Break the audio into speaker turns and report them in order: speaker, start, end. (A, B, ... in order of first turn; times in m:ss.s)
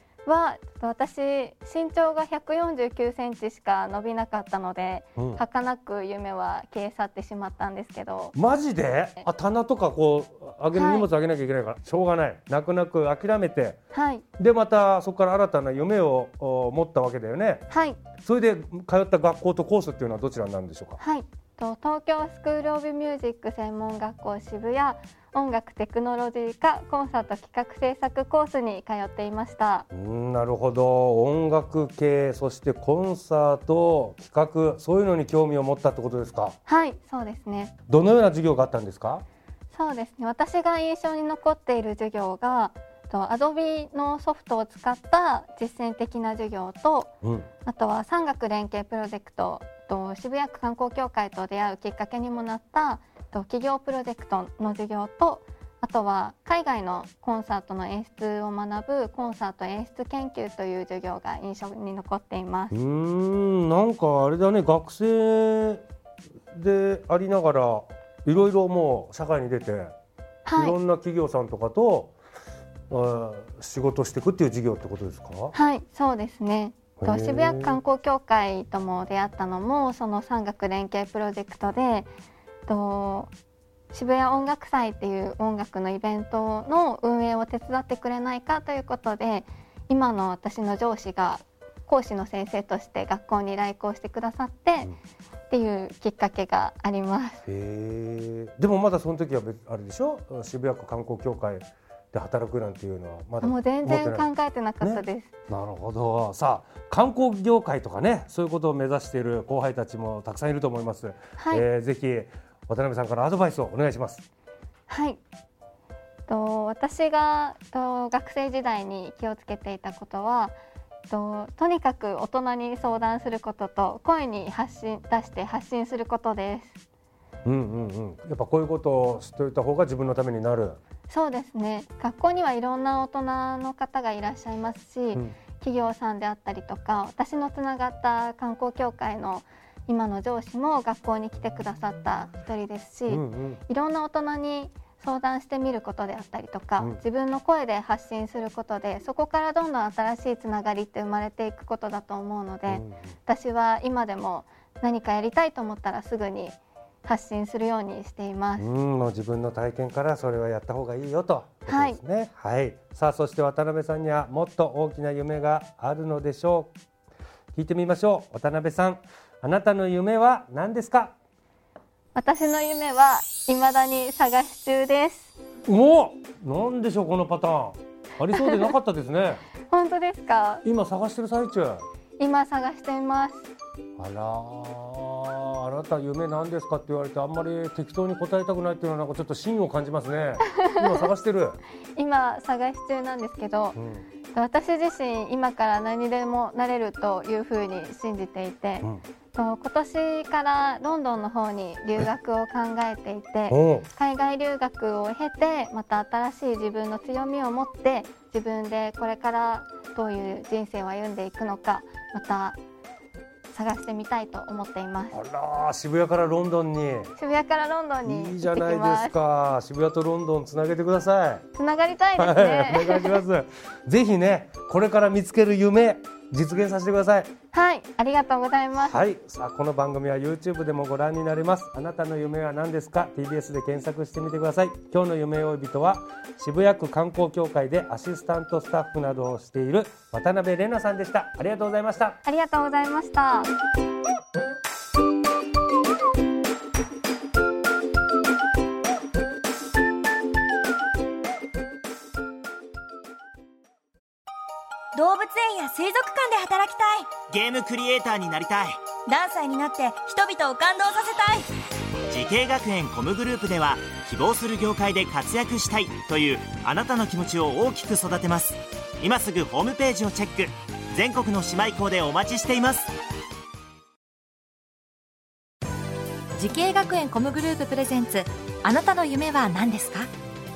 0:00.3-0:08.4 A
0:05.2-0:05.4 B
0:08.4-0:13.8 B
0:10.7-0:11.1 A
0:13.9-0:14.2 A
0:14.4-0:17.7 B
0:17.7-0:18.0 A
0:18.2-0:21.0 B
0:21.0-0:29.9 A
0:29.9-0:36.6 B
0:36.7-0:37.7 A
0:37.9-0:39.2 B
0:39.7-0:47.1 A
0:47.6-1:02.8 A
1:02.7-1:05.8 B
1:06.5-1:09.9 B
1:10.4-1:10.8 A
1:10.6-1:12.1 B
1:12.9-1:15.5 B
1:15.5-1:22.1 A
1:17.0-1:17.8 B
1:22.7-1:23.3 A
1:23.9-1:34.9 A
1:35.5-1:37.4 A
1:37.5-1:44.3 B
1:43.4-1:45.3 A
1:44.8-1:54.2 B
1:51.4-1:51.6 A
1:54.9-1:55.2 A
1:56.3-2:00.6 A
2:01.1-2:06.8 A
2:07.4-2:10.8 B
2:11.1-2:38.7 A
2:23.1-2:23.6 B
2:32.7-2:33.1 B
2:38.6-2:46.7 B
2:41.7-2:42.0 A
2:47.5-2:51.2 B
2:52.2-2:55.3 A
2:55.7-2:59.4 B
2:58.3-2:58.7 A
2:59.7-3:00.6 A
3:00.6-3:01.8 B
3:02.2-3:03.5 A
3:04.0-3:11.6 B
3:12.0-3:13.8 A
3:13.8-3:14.1 B
3:14.3-3:32.6 A
3:23.5-3:23.9 B
3:33.5-3:35.2 A
3:35.1-3:37.1 B
3:37.2-3:39.2 A
3:38.0-3:41.4 B
3:41.6-3:43.2 A
3:42.2-3:47.3 B
3:47.5-3:49.1 A
3:48.8-4:02.2 B
4:02.2-4:03.5 A
4:15.0-4:17.1 C
4:17.3-4:18.8 D
4:19.1-4:21.5 C
4:22.1-4:32.9 D
4:36.4-4:40.1 E